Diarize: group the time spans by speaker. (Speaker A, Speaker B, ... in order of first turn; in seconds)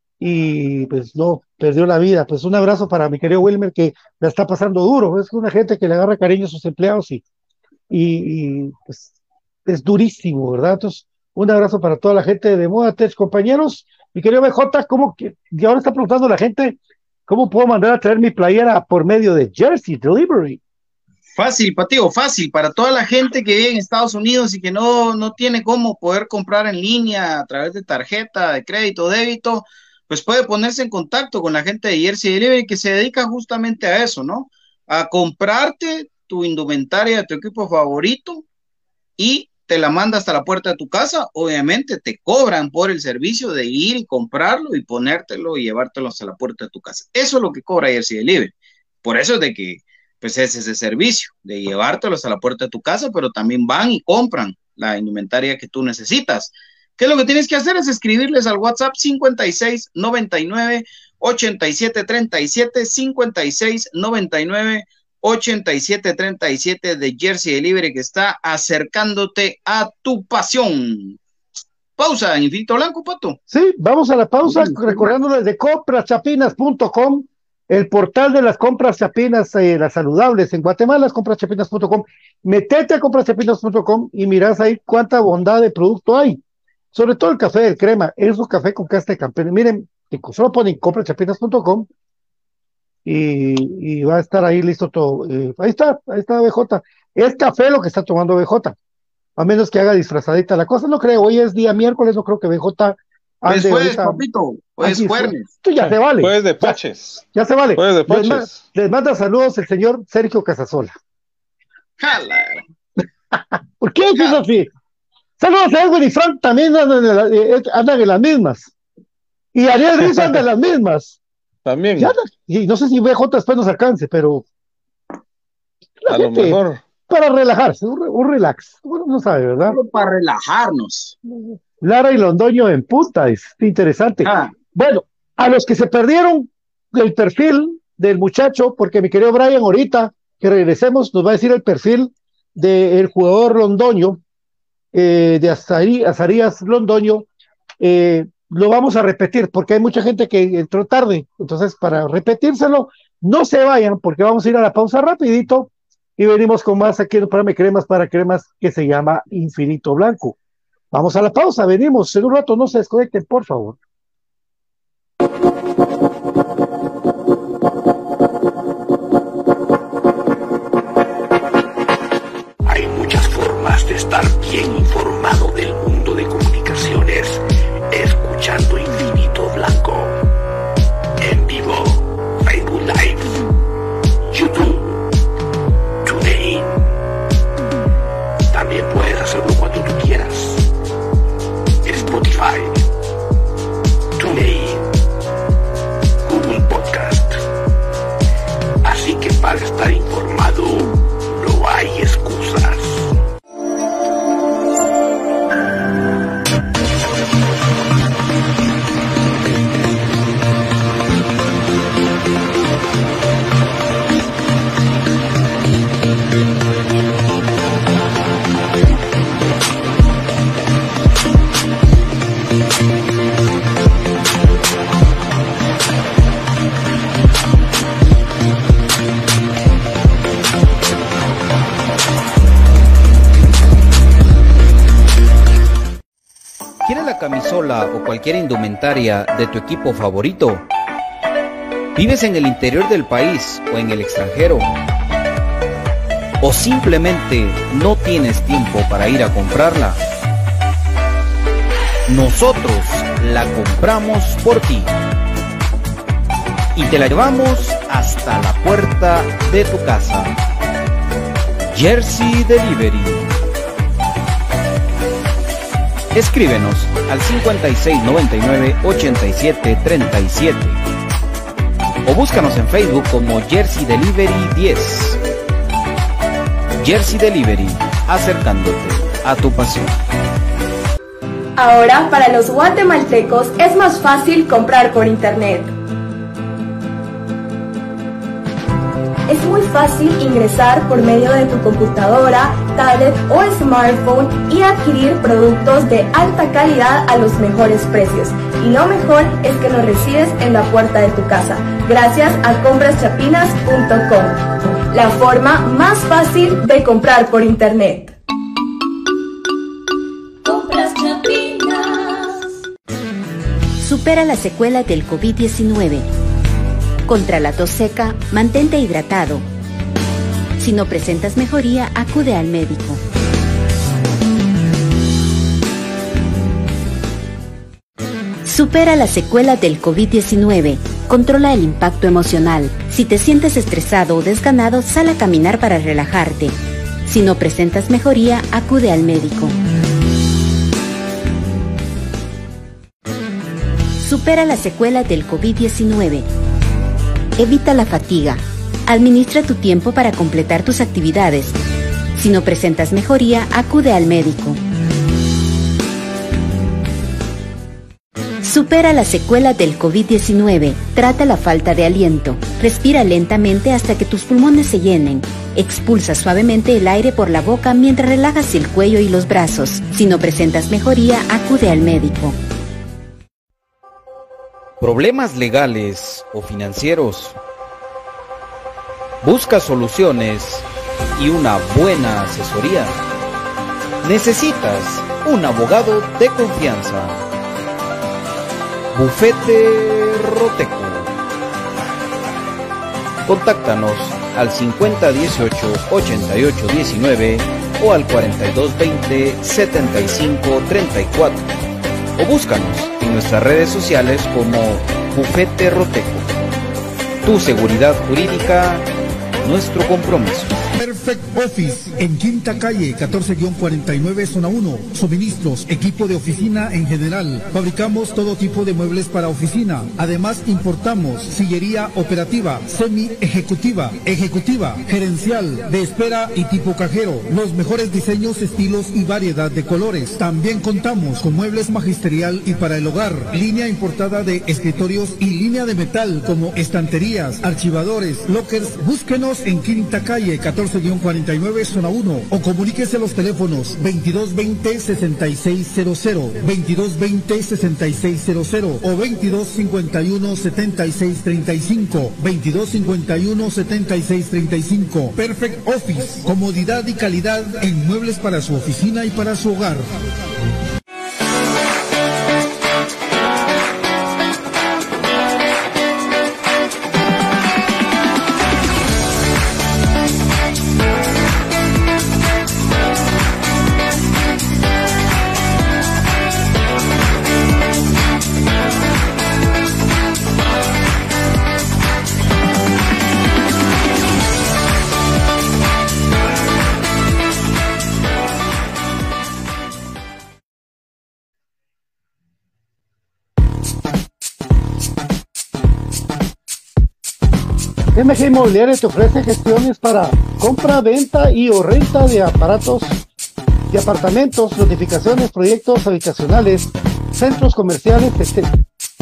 Speaker A: 0.2-7.2, 7.9-9.1, 9.7-20.6, 73.5-86.4, 86.9-91.9, 93.0-98.8, 99.4-104.2, 104.8-106.8, 107.3-110.9, 113.3-114.7, 115.4-118.7, 119.5-121.2, 122.0-124.4, 126.0-129.8, 131.5-144.2, 144.9-147.3, 147.8-160.3, 160.9-163.8, 497.9-503.0, 503.7-508.5
Speaker B: 21.4-38.4, 39.2-48.5, 49.0-71.2, 72.0-73.4, 74.5-75.1, 103.5-105.5, 112.0-112.6, 114.0-114.4, 129.7-131.2, 134.2-134.5, 236.8-240.7, 241.9-244.7, 246.4-250.0, 252.1-254.9, 256.8-260.4, 261.7-263.4, 266.1-270.8, 272.0-275.2, 276.8-279.9, 374.8-377.4, 379.2-383.0, 384.0-387.2, 388.9-391.1, 393.2-401.5, 402.2-406.3, 407.2-408.9, 409.4-410.6
Speaker C: 105.9-108.6, 120.0-120.3, 121.6-122.2, 126.1-126.8
Speaker D: 172.7-180.2, 181.2-183.4, 184.3-185.0, 186.0-186.9, 188.5-190.7, 191.8-192.8, 194.2-194.9, 196.2-197.4, 198.8-203.1
Speaker E: 281.6-285.7, 289.3-308.1, 311.1-311.7
Speaker F: 313.8-316.1, 317.1-319.5, 320.6-323.0, 328.4-339.6, 344.0-346.3, 347.4-351.6, 352.1-354.6, 358.4-372.4
Speaker G: 410.8-459.9